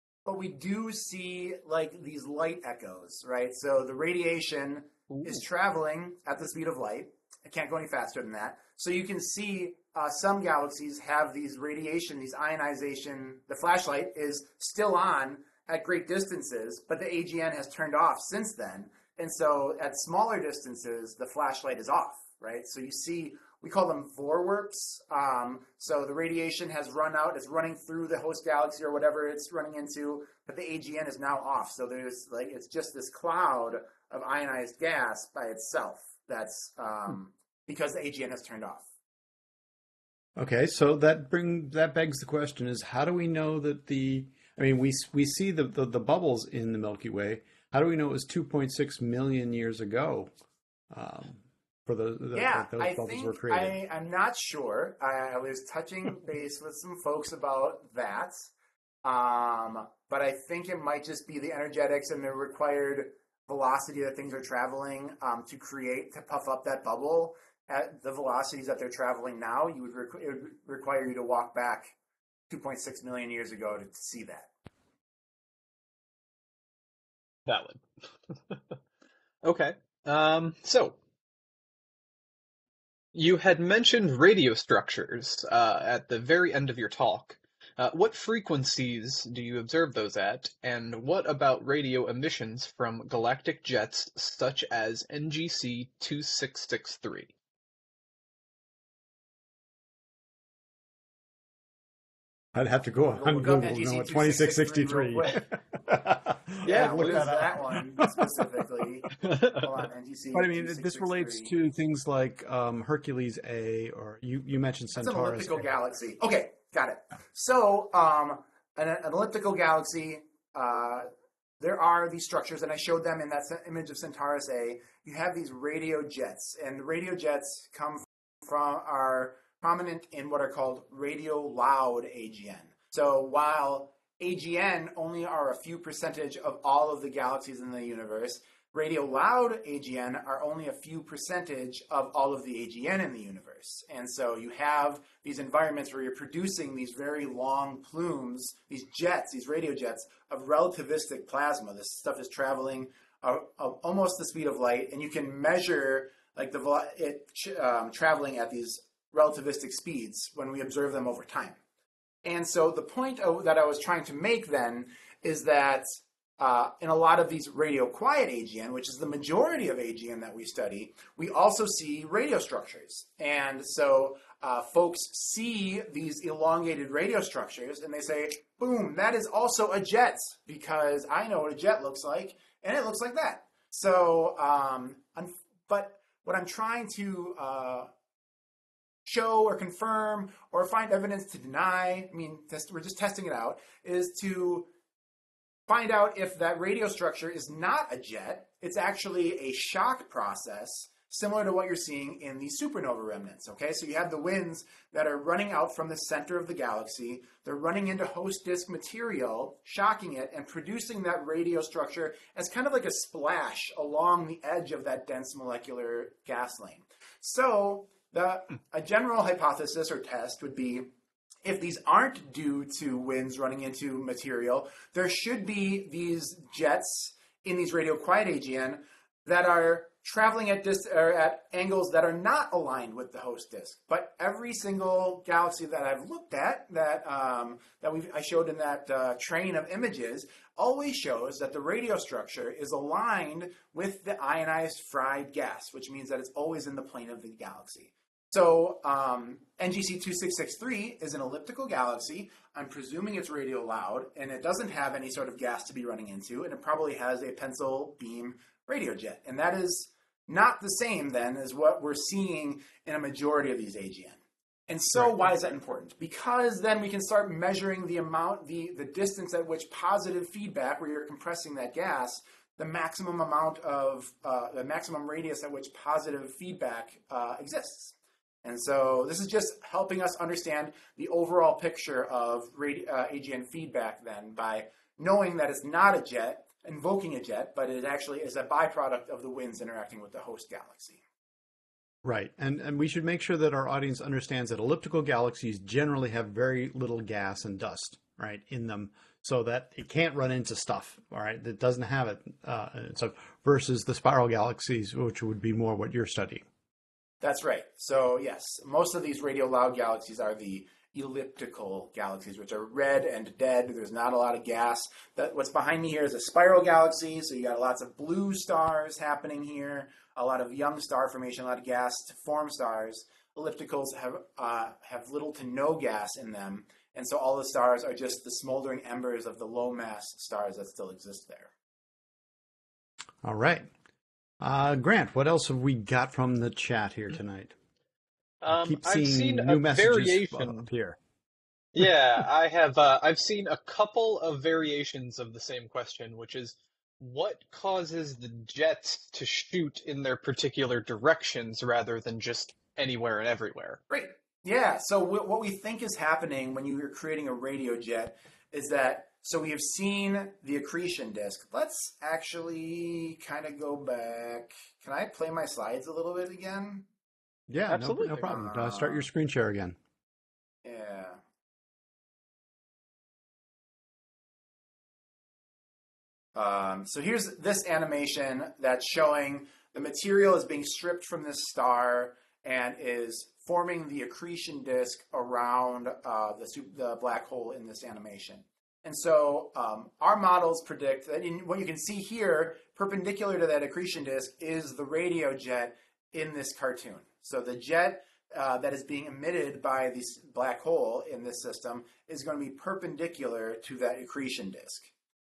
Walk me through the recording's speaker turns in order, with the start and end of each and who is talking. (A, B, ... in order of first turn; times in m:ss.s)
0:00.2-0:38.8 A
0:05.1-0:05.4 B
0:40.4-0:50.3 C
0:50.9-0:53.8 C
0:52.3-0:58.5 A
0:59.0-1:11.9 A
1:12.5-1:14.5 A
1:17.5-1:18.8 B
1:19.4-1:21.0 B
1:23.1-1:37.3 B
1:42.5-1:48.4 C
1:43.2-1:45.4 A
1:46.6-1:47.3 B
1:46.6-1:51.5 A
1:49.2-1:49.6 B
1:50.3-1:55.7 C
1:55.0-2:01.1 A
2:01.6-2:41.6 A
2:42.2-3:07.9 A
3:09.0-3:14.7 A
3:15.7-3:40.9 A
3:41.4-4:51.0 A
4:52.0-5:06.4 C
5:07.2-5:31.5 A
5:33.2-5:33.7 C
5:34.4-5:37.6 C
5:38.4-5:40.7 B
5:38.5-5:41.0 C
5:41.8-5:53.8 B
5:53.9-6:06.9 A
6:07.5-6:09.8 C
6:07.7-6:08.2 B
6:08.2-6:09.1 A
6:10.6-6:11.2 A
6:16.4-6:44.9 A